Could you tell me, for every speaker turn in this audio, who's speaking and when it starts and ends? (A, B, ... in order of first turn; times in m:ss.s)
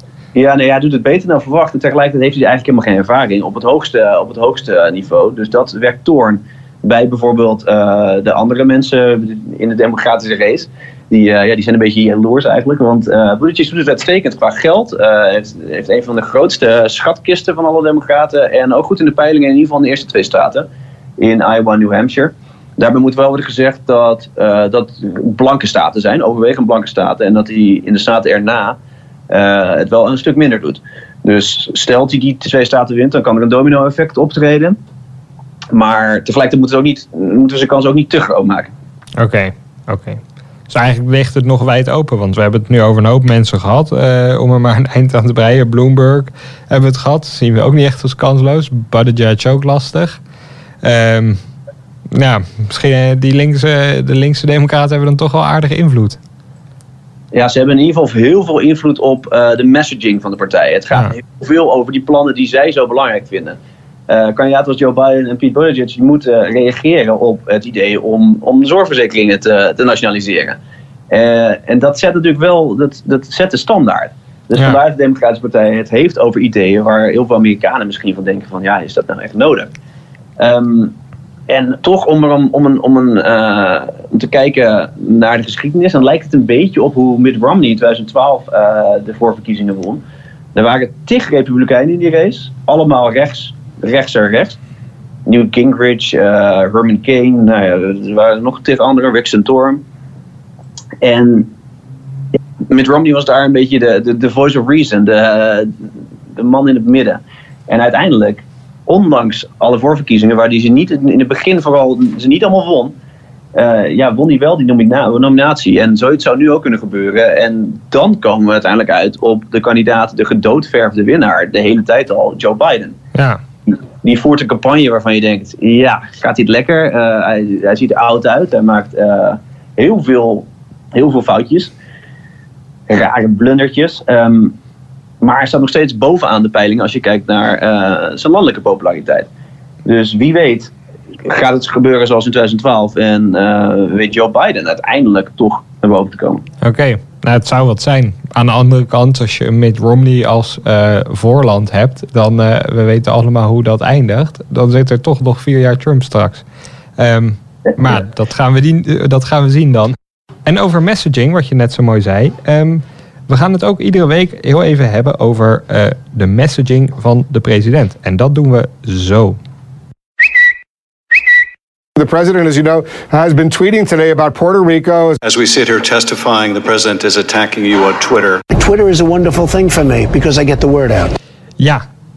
0:00.4-0:20.7 A
0:21.2-0:28.8 A
0:29.3-0:34.8 A
0:35.7-0:38.7 A
0:39.2-0:50.2 B
0:50.8-0:51.4 B
0:52.1-0:56.2 B
0:57.3-1:03.6 A
1:04.1-1:10.6 A
1:11.1-1:19.7 A
1:20.4-1:20.9 A
1:21.5-1:30.0 A
1:30.6-1:34.6 A
1:35.3-1:39.8 A
1:41.0-1:41.5 A
1:42.7-1:45.7 A
1:46.3-1:52.9 A
1:53.6-2:03.0 A
2:03.2-2:03.4 B
2:04.0-2:11.7 A
2:12.9-2:14.6 A
2:15.2-2:19.3 A
2:19.8-2:20.7 A
2:21.2-2:26.4 A
2:26.6-2:36.4 B
2:37.0-2:49.4 B
2:52.0-2:55.2 C
2:55.2-2:58.4 D
2:58.5-3:01.1 E